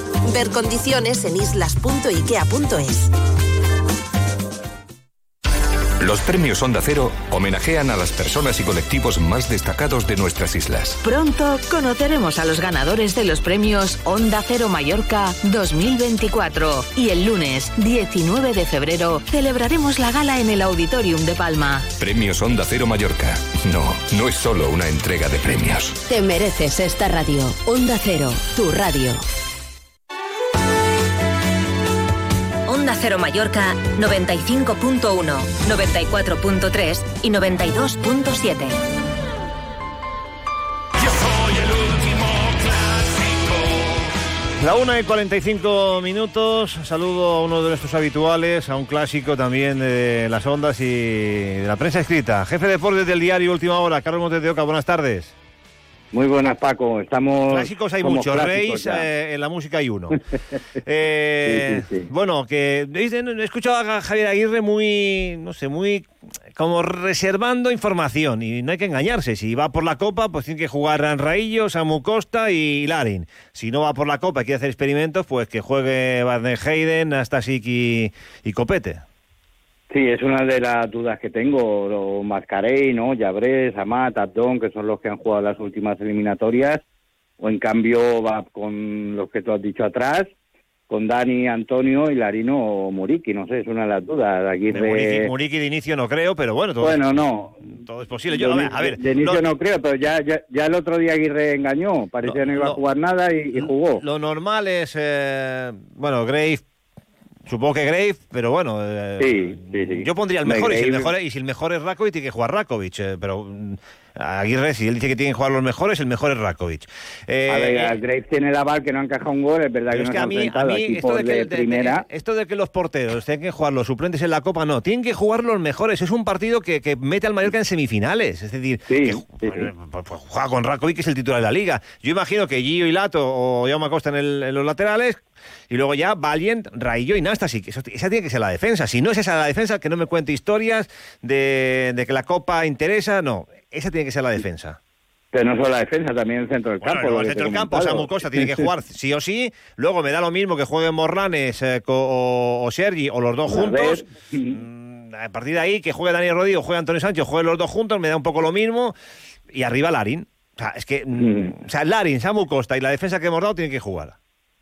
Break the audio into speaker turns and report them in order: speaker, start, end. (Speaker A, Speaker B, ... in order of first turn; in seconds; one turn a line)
Speaker A: 0.3-3.1
Speaker B: 6.0-11.0
Speaker C: 11.0-21.9
Speaker B: 22.0-26.0
Speaker D: 26.1-29.2
Speaker E: 32.7-38.8
Speaker F: 44.6-55.3
Speaker G: 56.1-59.0
Speaker F: 57.5-60.2
Speaker F: 60.9-79.0
Speaker G: 61.4-62.1
Speaker G: 79.9-86.8
Speaker G: 87.4-90.3
Speaker G: 90.9-95.3
Speaker F: 94.7-97.0
Speaker G: 96.8-97.6
Speaker F: 97.8-99.4
Speaker G: 98.3-104.0
Speaker F: 102.2-102.8
Speaker F: 103.5-106.6
Speaker F: 107.5-118.0
Speaker G: 109.2-111.1
Speaker G: 117.5-122.0
Speaker F: 119.9-144.8
Speaker G: 128.9-129.7
Speaker G: 145.3-148.7
Speaker F: 146.8-158.9
Speaker G: 153.5-154.6
Speaker F: 159.5-164.2
Speaker G: 161.2-161.5